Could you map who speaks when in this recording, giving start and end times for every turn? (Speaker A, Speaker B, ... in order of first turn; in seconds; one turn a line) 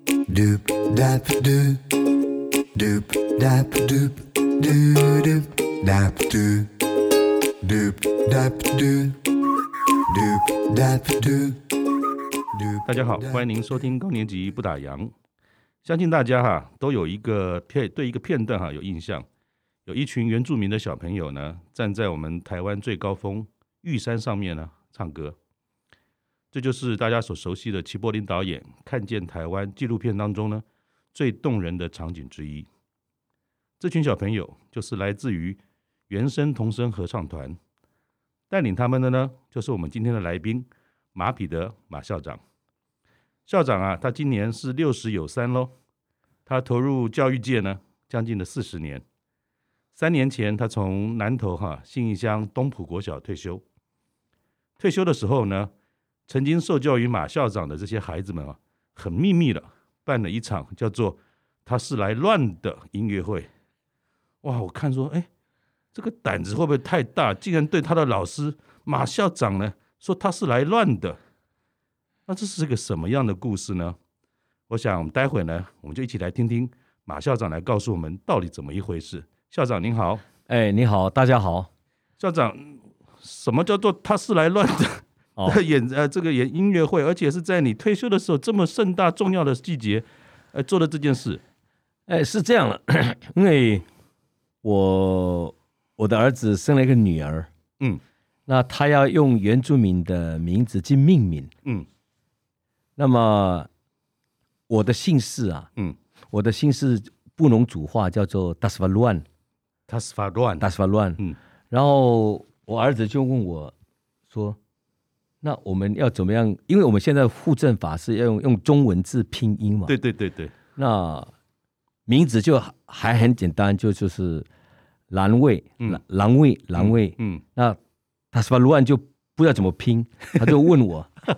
Speaker A: 0.3-2.0
Speaker A: 2.8-6.7
Speaker A: 7.6-9.4
Speaker A: 9.9-11.7
Speaker A: 12.5-13.6
Speaker B: 12.8-15.1
Speaker B: 15.8-19.3
Speaker B: 19.9-25.4
Speaker B: 26.5-32.7
Speaker B: 33.8-37.6
Speaker B: 38.5-42.4
Speaker B: 43.5-45.7
Speaker B: 46.5-49.0
Speaker B: 49.9-53.6
Speaker B: 54.8-55.7
Speaker B: 56.3-63.5
Speaker B: 64.4-65.3
Speaker B: 65.9-71.2
Speaker B: 72.3-74.0
Speaker B: 74.7-80.2
Speaker C: 80.5-81.7
Speaker B: 82.2-91.4
Speaker C: 92.1-93.9
Speaker C: 94.6-97.5
Speaker C: 98.5-101.5
Speaker C: 103.0-103.7
Speaker C: 104.7-105.7
Speaker C: 106.3-109.2
Speaker B: 109.9-111.4
Speaker C: 110.6-113.8
Speaker C: 114.3-114.6
Speaker C: 115.4-119.9
Speaker B: 119.9-120.5
Speaker C: 120.8-121.3
Speaker C: 122.1-124.5
Speaker C: 125.1-127.8
Speaker B: 126.8-127.4
Speaker C: 128.3-131.2